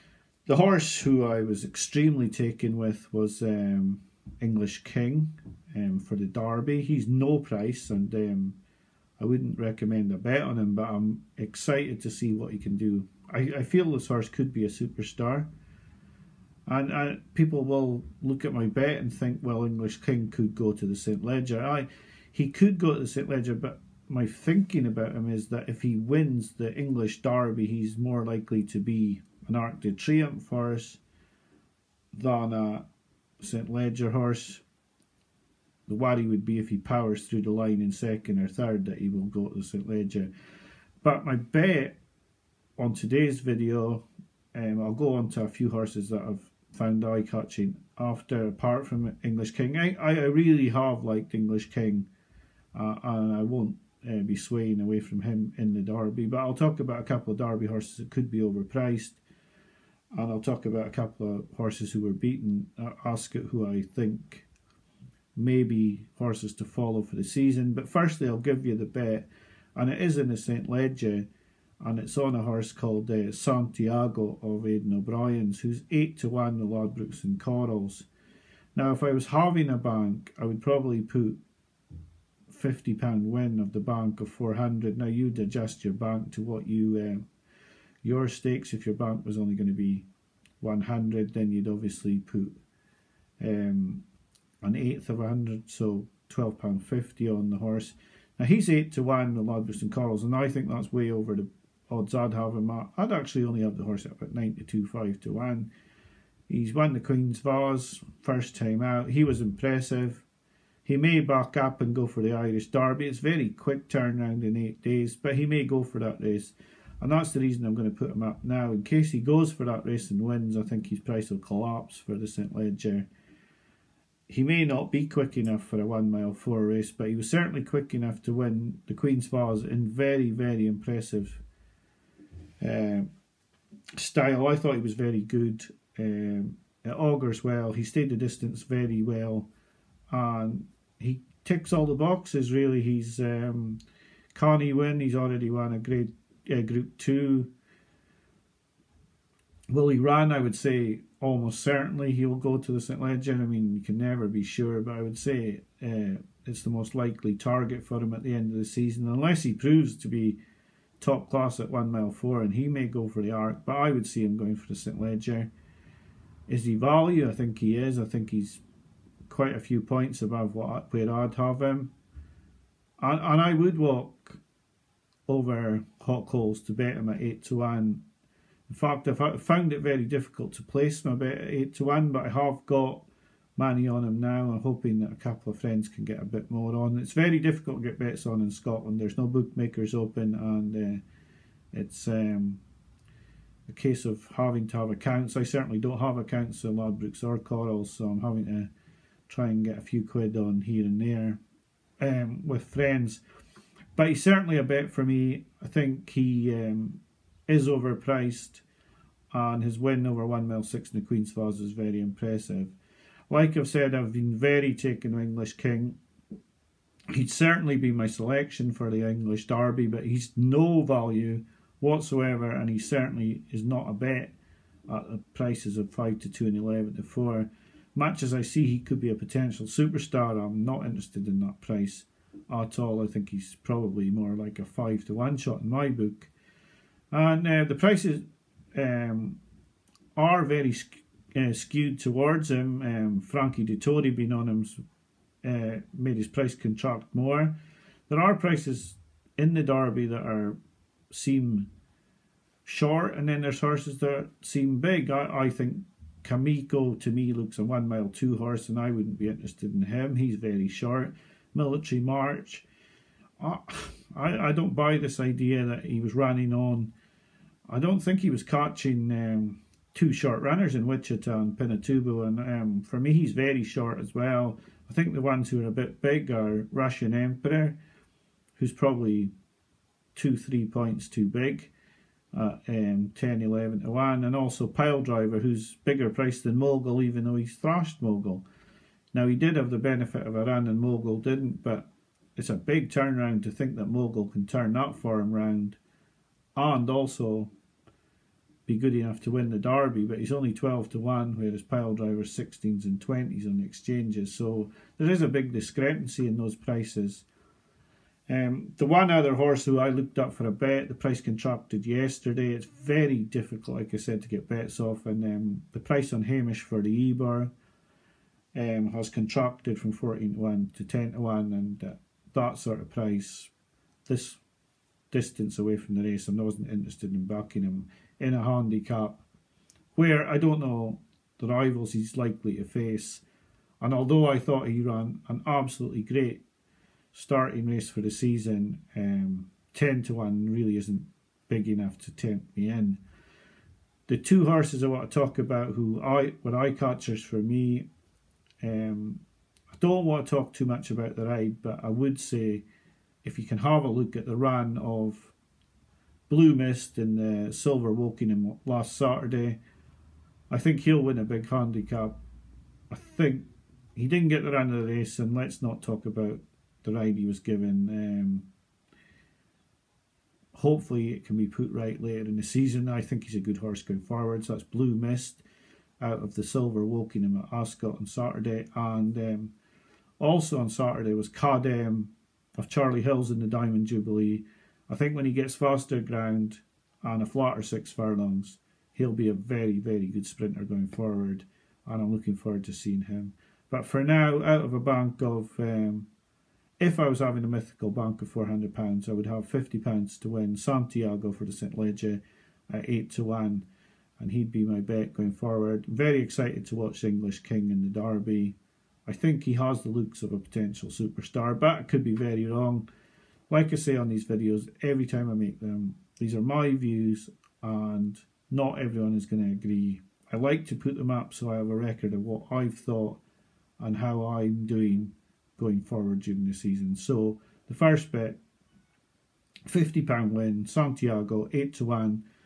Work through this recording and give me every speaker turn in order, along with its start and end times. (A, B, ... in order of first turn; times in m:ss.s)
0:00.4-0:08.6 A
0:09.2-0:15.5 A
0:16.7-0:31.0 A
0:32.1-0:32.8 A
0:33.4-0:34.6 A
0:35.9-0:40.3 A
0:41.0-0:42.0 A
0:42.8-0:52.1 A
0:52.7-0:59.2 A
1:00.1-1:04.4 A
1:05.4-1:11.3 A
1:11.8-1:18.1 A
1:18.7-1:21.4 A
1:22.5-1:27.2 A
1:28.0-1:30.0 A
1:30.6-1:32.6 A
1:33.4-1:34.0 A
1:34.6-1:45.7 A
1:46.5-1:50.2 A
1:50.8-2:03.1 A
2:04.3-2:11.4 A
2:12.6-2:13.1 A
2:14.0-2:19.5 A
2:20.1-2:23.8 A
2:24.3-2:27.5 A
2:29.7-2:40.4 A
2:41.0-2:45.5 A
2:46.5-2:48.6 A
2:49.3-2:51.9 A
2:53.0-2:54.4 A
2:55.3-2:58.0 A
2:58.7-3:03.0 A
3:03.6-3:11.0 A
3:11.7-3:12.6 A
3:13.7-3:18.7 A
3:19.3-3:21.4 A
3:22.0-3:23.2 A
3:23.9-3:28.6 A
3:29.3-3:32.7 A
3:33.3-3:36.0 A
3:37.1-3:44.3 A
3:44.9-3:56.3 A
3:57.1-3:59.4 A
4:00.1-4:04.8 A
4:05.4-4:07.5 A
4:08.1-4:10.6 A
4:11.1-4:11.7 A
4:12.6-4:22.6 A
4:23.4-4:26.9 A
4:27.7-4:37.8 A
4:38.6-4:39.3 A
4:40.1-4:41.7 A
4:42.3-4:48.4 A
4:49.1-4:55.8 A
4:56.6-4:57.5 A
4:58.7-5:07.2 A
5:08.3-5:17.5 A
5:18.5-5:23.5 A
5:24.0-5:24.4 A
5:25.1-5:29.2 A
5:29.9-5:33.2 A
5:33.8-5:36.4 A
5:37.1-5:43.0 A
5:44.1-5:47.8 A
5:48.6-5:49.2 A
5:49.7-5:52.6 A
5:53.2-5:55.3 A
5:56.3-5:59.6 A
6:00.5-6:02.2 A
6:02.9-6:08.5 A
6:10.5-6:15.4 A
6:16.0-6:19.5 A
6:20.2-6:36.1 A
6:36.8-6:43.6 A
6:44.2-6:48.5 A
6:49.0-6:52.9 A
6:53.5-7:03.2 A
7:03.8-7:08.4 A
7:09.7-7:12.2 A